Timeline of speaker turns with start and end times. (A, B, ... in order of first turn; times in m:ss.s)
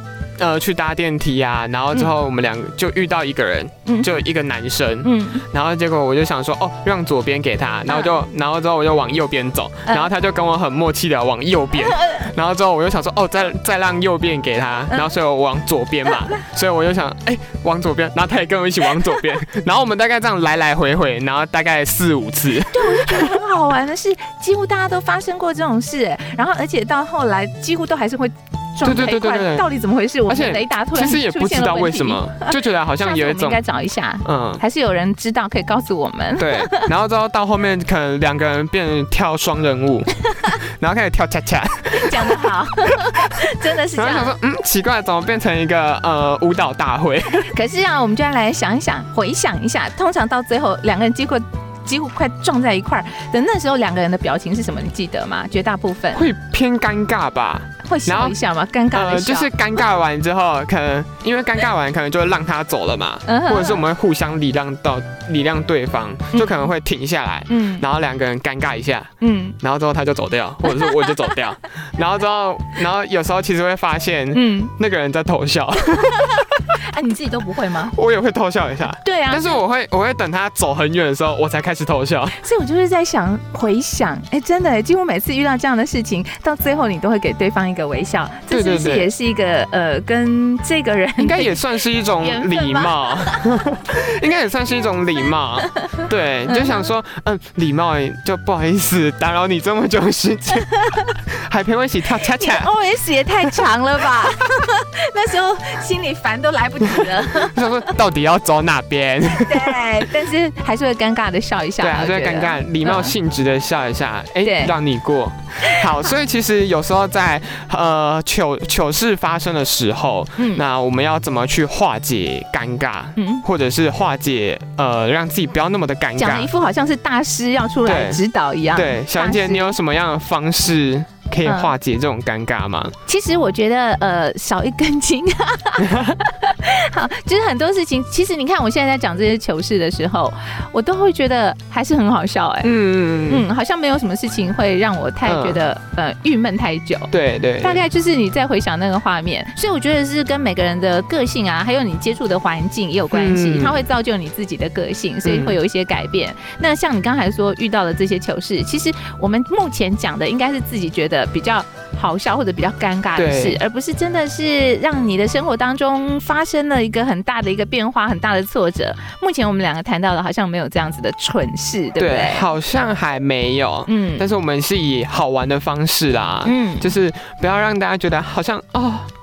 0:00.4-0:23.4 A
0:03.8-0:04.1 B
0:05.0-0:05.4 B
0:07.9-0:08.2 B
0:11.8-0:12.3 B
0:22.7-0:36.9 B
0:28.8-0:29.6 A
0:30.3-0:33.6 A
0:34.2-0:34.6 A
0:36.4-0:42.5 A
0:41.9-0:44.3 B
0:43.9-0:47.5 A
0:47.5-0:56.2 B
0:56.1-0:58.4 A
0:57.8-0:59.5 B
0:58.9-1:09.1 A
1:03.2-1:03.8 B
1:06.3-1:06.7 B
1:07.5-1:07.8 B
1:09.2-1:09.6 B
1:09.6-1:16.7 A
1:10.7-1:11.1 B
1:14.3-1:14.7 B
1:16.7-1:17.9 B
1:17.9-1:22.4 A
1:19.0-1:19.6 B
1:22.4-1:31.6 B
1:28.5-1:29.1 A
1:31.2-1:40.8 A
1:32.2-1:33.5 B
1:36.5-1:36.9 B
1:40.8-1:41.1 B
1:41.5-1:42.7 A
1:42.2-1:47.9 B
1:47.4-1:49.8 A
1:49.4-1:53.1 B
1:51.8-2:06.5 A
1:54.4-1:54.7 B
2:00.4-2:00.6 B
2:03.2-2:03.4 B
2:06.2-2:09.8 B
2:07.8-2:08.2 A
2:08.7-2:12.9 A
2:11.4-2:11.7 B
2:13.1-2:22.7 B
2:22.6-2:23.5 A
2:23.3-2:27.1 B
2:25.2-2:25.6 A
2:27.1-2:27.8 A
2:27.6-2:52.5 B
2:33.1-2:33.8 A
2:35.2-2:35.6 A
2:43.2-2:43.6 A
2:52.0-2:59.1 A
2:53.9-2:54.3 B
2:56.4-2:56.9 B